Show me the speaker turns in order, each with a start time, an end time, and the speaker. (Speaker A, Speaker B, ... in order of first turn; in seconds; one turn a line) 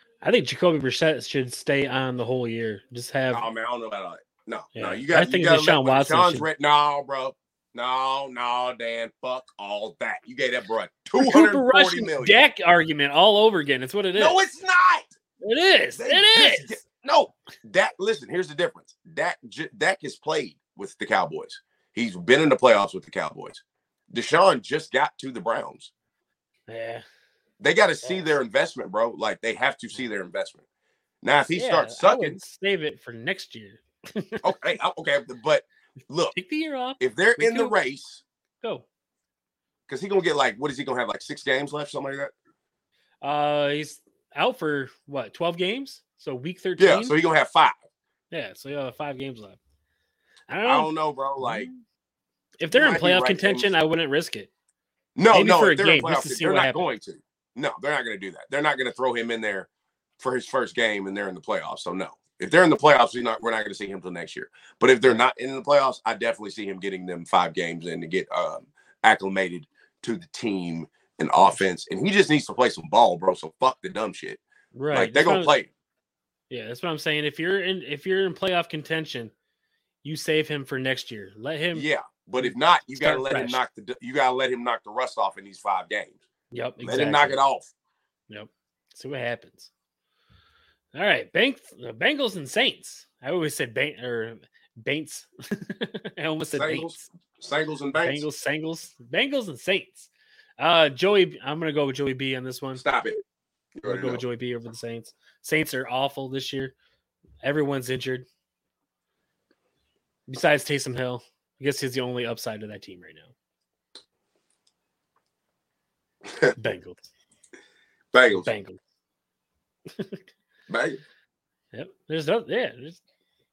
Speaker A: 0.2-3.4
Speaker B: 3.3-12.4
Speaker A: 4.8-6.5
Speaker A: 11.2-14.4
Speaker B: 14.1-15.2
Speaker A: 15.4-16.8
Speaker B: 15.9-25.9
Speaker A: 26.7-27.0
Speaker B: 27.6-30.6
Speaker B: 31.2-32.4
Speaker A: 31.5-34.5
Speaker B: 34.4-36.3
Speaker A: 36.3-37.8
Speaker B: 37.0-38.2
Speaker B: 39.9-42.3
Speaker A: 43.2-47.1
Speaker B: 46.8-47.8
Speaker A: 48.3-49.6
Speaker A: 50.5-51.8
Speaker B: 50.6-51.7
Speaker A: 52.6-54.5
Speaker B: 52.7-53.7
Speaker B: 55.1-59.7
Speaker A: 55.3-56.9
Speaker B: 60.2-75.7
Speaker A: 74.7-75.5
Speaker A: 76.5-79.3
Speaker A: 80.0-83.6
Speaker B: 81.7-86.2
Speaker A: 86.5-87.4
Speaker B: 86.8-87.7
Speaker A: 88.3-89.7
Speaker A: 90.9-97.0
Speaker B: 96.5-98.2
Speaker A: 97.9-102.8
Speaker B: 102.8-103.2
Speaker B: 103.8-104.2
Speaker A: 103.8-106.7
Speaker A: 107.4-108.2
Speaker A: 110.3-113.3
Speaker A: 116.5-117.0
Speaker B: 118.1-118.5
Speaker A: 118.3-118.8
Speaker B: 120.7-121.0
Speaker A: 121.7-123.0